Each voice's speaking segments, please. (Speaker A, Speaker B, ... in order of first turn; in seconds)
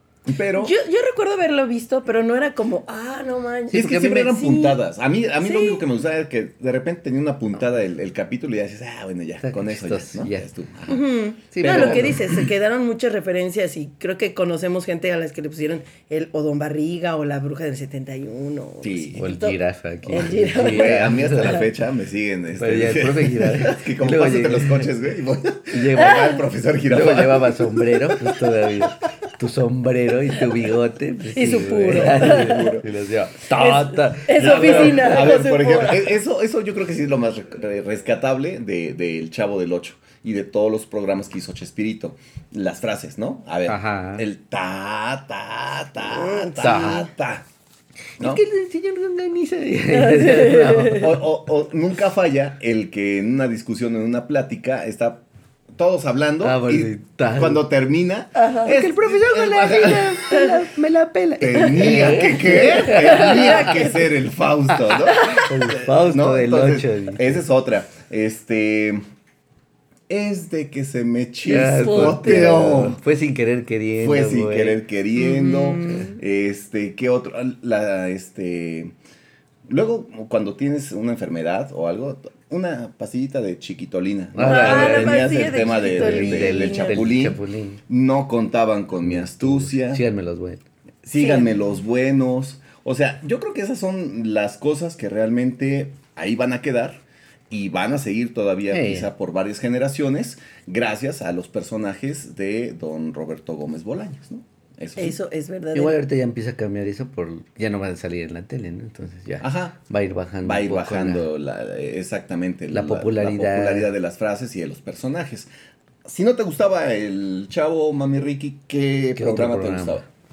Speaker A: 0.2-0.7, 3.7-11.0, 11.6-12.5, 18.8-19.3, 20.1-28.5, 32.1-32.9, 34.4-47.5, 50.9-55.2, 55.8-60.3, 61.4-69.0, 70.1-73.0, 74.0-78.9, 79.7-90.0, 91.0-105.2, 109.4-109.8, 110.4-115.5, 116.0-120.0
Speaker B: 0.6-4.8, 5.4-5.8, 10.9-21.7, 26.0-26.4, 31.3-32.8, 33.5-36.1, 46.0-47.1, 49.9-51.1, 58.4-58.7, 61.6-64.1, 65.0-65.5, 71.5-72.7, 75.1-76.2, 84.4-87.0, 91.2-91.5, 105.0-106.0
Speaker C: 9.4-10.5, 11.5-12.2, 19.2-21.6, 22.6-24.9, 25.7-26.4, 26.9-35.3, 43.7-44.2, 46.6-47.0, 48.2-51.1, 56.4-57.6, 58.6-63.7, 65.1-67.4, 71.5-74.8, 84.3-87.8, 89.0-90.6, 98.7-99.1, 105.7-111.2, 112.7-113.9, 119.2-120.0